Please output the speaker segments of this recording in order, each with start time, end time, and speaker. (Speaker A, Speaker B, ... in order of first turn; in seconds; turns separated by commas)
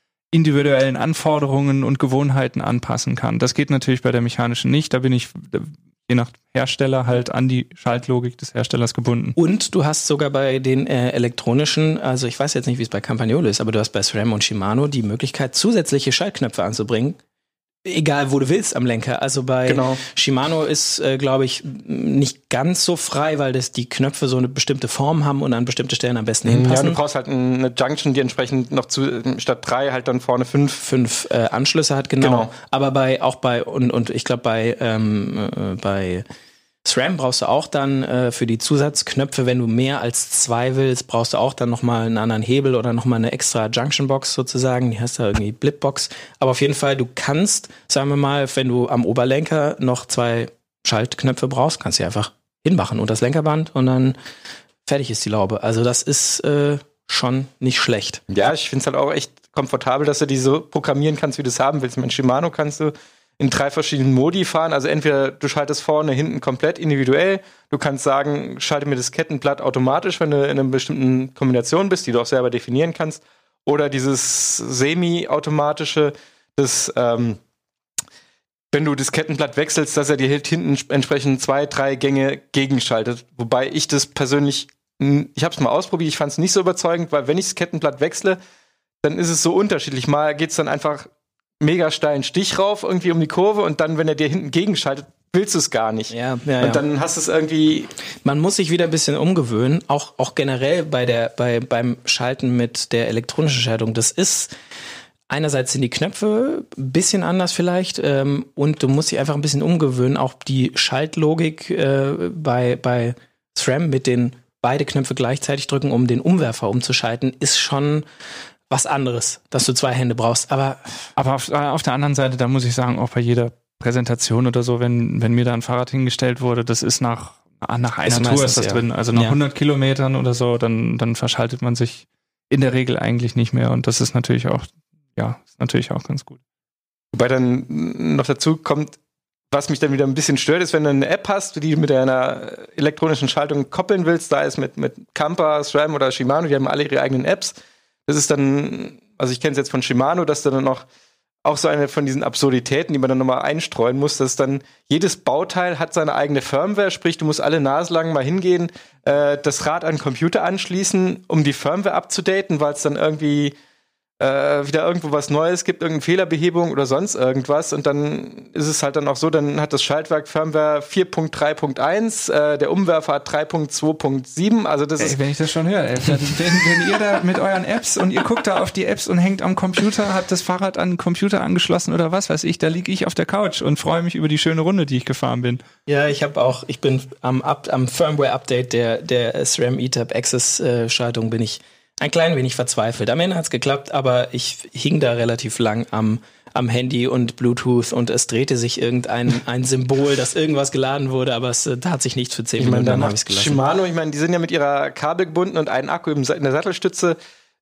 Speaker A: 0.3-9.4, Speaker B: 9.4-17.2, Speaker B: 17.9-27.0, Speaker C: 19.7-20.0, Speaker C: 26.4-30.8, Speaker B: 30.8-36.2, Speaker C: 32.2-32.5, Speaker B: 36.9-54.2, Speaker B: 54.9-58.2, Speaker C: 58.3-77.4, Speaker C: 78.7-88.4, Speaker C: 89.0-91.1, Speaker C: 91.6-97.9, Speaker B: 96.1-96.8, Speaker B: 98.2-104.5, Speaker B: 105.3-118.1, Speaker B: 118.7-121.1, Speaker A: 121.2-136.4, Speaker B: 128.1-129.4, Speaker C: 137.1-139.0, Speaker C: 139.5-147.6, Speaker C: 148.1-150.9, Speaker C: 151.4-163.6, Speaker C: 164.2-175.2, Speaker A: 175.0-185.6, Speaker B: 185.9-203.6, Speaker C: 202.6-207.2